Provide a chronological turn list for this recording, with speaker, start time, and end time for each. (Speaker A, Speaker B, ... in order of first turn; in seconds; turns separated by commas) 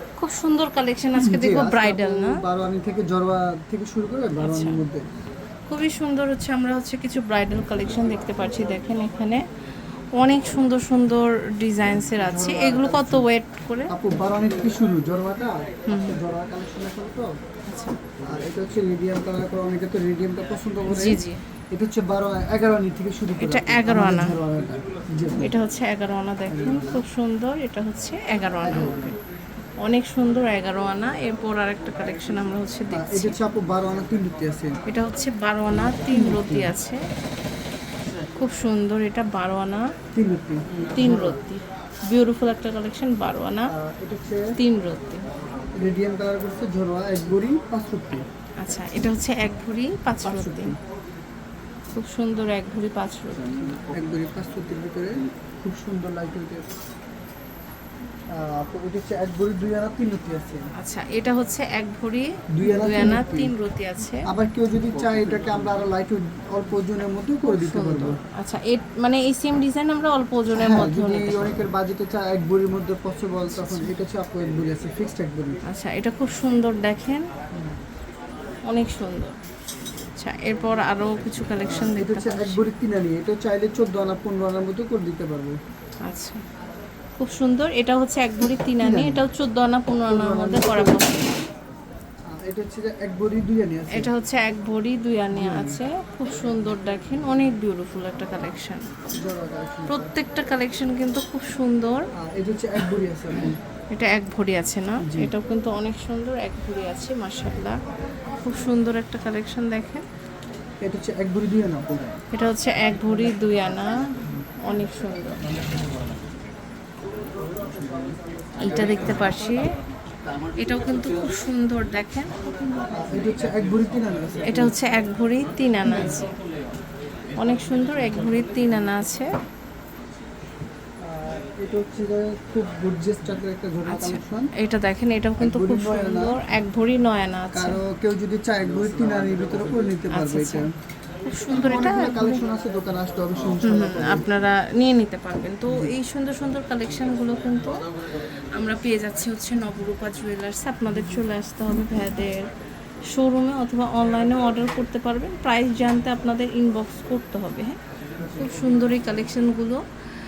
Speaker A: 0.2-2.4, Speaker B: 1.2-5.0, Speaker A: 4.4-4.8, Speaker A: 5.7-9.4, Speaker A: 10.2-13.9, Speaker B: 12.1-13.3, Speaker B: 13.9-17.3, Speaker A: 15.9-16.2, Speaker A: 17.7-18.0, Speaker B: 18.2-25.6, Speaker A: 20.9-21.4, Speaker A: 23.4-24.4, Speaker A: 25.4-29.1, Speaker B: 26.5-27.0, Speaker B: 28.6-29.1, Speaker A: 29.8-33.4, Speaker B: 32.9-34.8, Speaker A: 34.9-37.0, Speaker B: 35.7-36.7, Speaker A: 38.4-39.9, Speaker B: 40.1-41.4, Speaker A: 40.9-43.7, Speaker B: 43.7-44.5, Speaker A: 44.6-45.2, Speaker B: 45.8-48.3, Speaker A: 48.6-50.8, Speaker B: 50.2-50.8, Speaker A: 51.9-53.7, Speaker B: 53.5-56.7, Speaker B: 58.3-60.6, Speaker A: 60.8-64.3, Speaker B: 62.5-63.5, Speaker B: 64.3-68.2, Speaker A: 67.5-71.6, Speaker B: 70.6-75.6, Speaker A: 73.5-73.9, Speaker A: 75.7-77.3, Speaker A: 78.7-79.3, Speaker A: 80.0-82.6, Speaker B: 81.6-85.6, Speaker A: 86.0-86.4, Speaker A: 87.2-91.3, Speaker B: 88.8-89.2, Speaker B: 90.1-91.3, Speaker B: 92.3-94.1, Speaker A: 93.9-98.9, Speaker B: 95.3-95.8, Speaker B: 99.1-100.2, Speaker A: 99.9-102.0, Speaker B: 102.2-103.6, Speaker A: 103.4-107.8, Speaker B: 105.0-105.3, Speaker A: 108.4-110.0, Speaker B: 110.8-112.2, Speaker A: 112.3-114.0, Speaker A: 114.7-115.5, Speaker A: 118.6-119.7, Speaker B: 118.7-119.0, Speaker A: 120.6-122.3, Speaker B: 122.9-124.8, Speaker A: 124.5-126.3, Speaker B: 125.8-126.2, Speaker A: 127.4-129.3, Speaker B: 131.0-134.5, Speaker A: 133.9-137.8, Speaker B: 135.4-136.4, Speaker B: 137.5-140.7, Speaker A: 140.1-140.7, Speaker A: 141.2-142.4, Speaker B: 141.5-144.3, Speaker A: 143.6-147.9, Speaker B: 145.7-145.9, Speaker A: 148.5-152.5, Speaker A: 153.1-157.8, Speaker A: 158.4-159.8